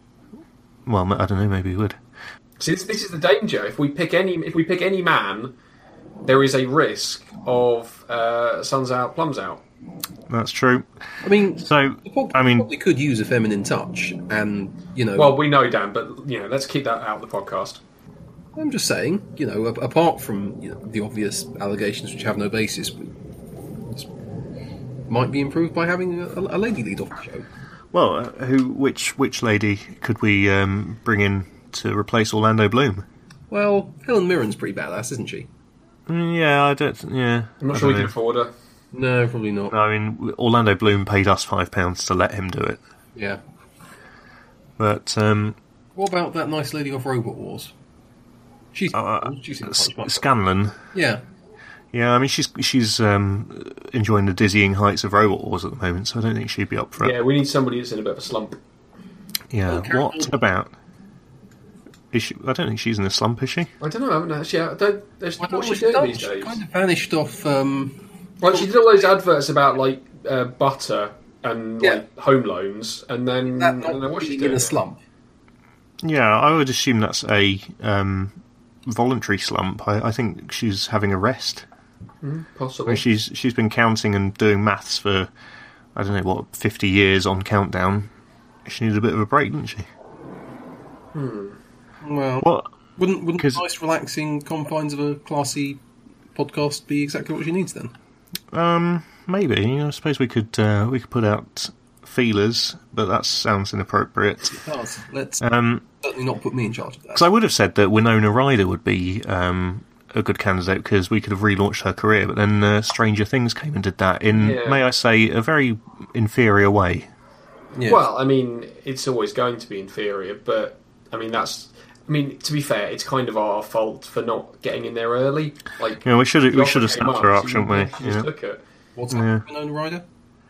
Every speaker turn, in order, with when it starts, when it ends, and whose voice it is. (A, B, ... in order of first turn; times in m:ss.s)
0:00.8-0:02.0 A
0:02.6-0:05.5 B
0:06.2-0:09.6 B
0:10.3-0:10.8 A
0:11.2-0:15.4 C
0:11.6-0:12.7 A
0:15.2-0:17.8 B
0:18.5-0:23.1 C
0:23.8-0:24.1 C
0:25.1-0:27.5 C
0:27.9-0:33.0 A
0:33.5-0:35.5 C
0:36.1-0:38.1 A
0:37.6-0:38.5 B
0:38.9-0:39.7 C
0:39.7-0:42.8 A
0:43.1-0:43.4 C
0:44.8-0:45.6 A
0:45.9-0:47.7 C
0:48.7-0:50.3 C
0:48.9-0:50.8 A
0:50.9-0:51.2 C
0:51.9-0:57.1 A
0:57.0-0:58.6 B
0:59.5-1:00.7 A
0:59.7-1:00.3 C
1:02.1-1:03.7 A
1:03.8-1:06.6 B
1:05.4-1:08.7 C
1:08.4-1:14.8 B
1:13.6-1:15.0 C
1:16.0-1:21.6 A
1:22.2-1:23.0 B
1:22.8-1:25.3 A
1:26.0-1:28.1 A
1:28.6-1:29.9 A
1:31.1-1:31.6 B
1:32.0-1:35.8 C
1:32.4-1:32.7 A
1:36.3-1:37.9 C
1:38.5-1:44.6 A
1:44.5-1:45.4 C
1:45.4-1:45.8 A
1:46.0-1:47.3 C
1:47.1-1:57.1 A
1:54.3-1:54.8 B
1:57.8-1:58.0 C
1:57.8-2:08.6 B
2:06.0-2:08.3 A
2:09.0-2:10.0 C
2:09.1-2:09.4 A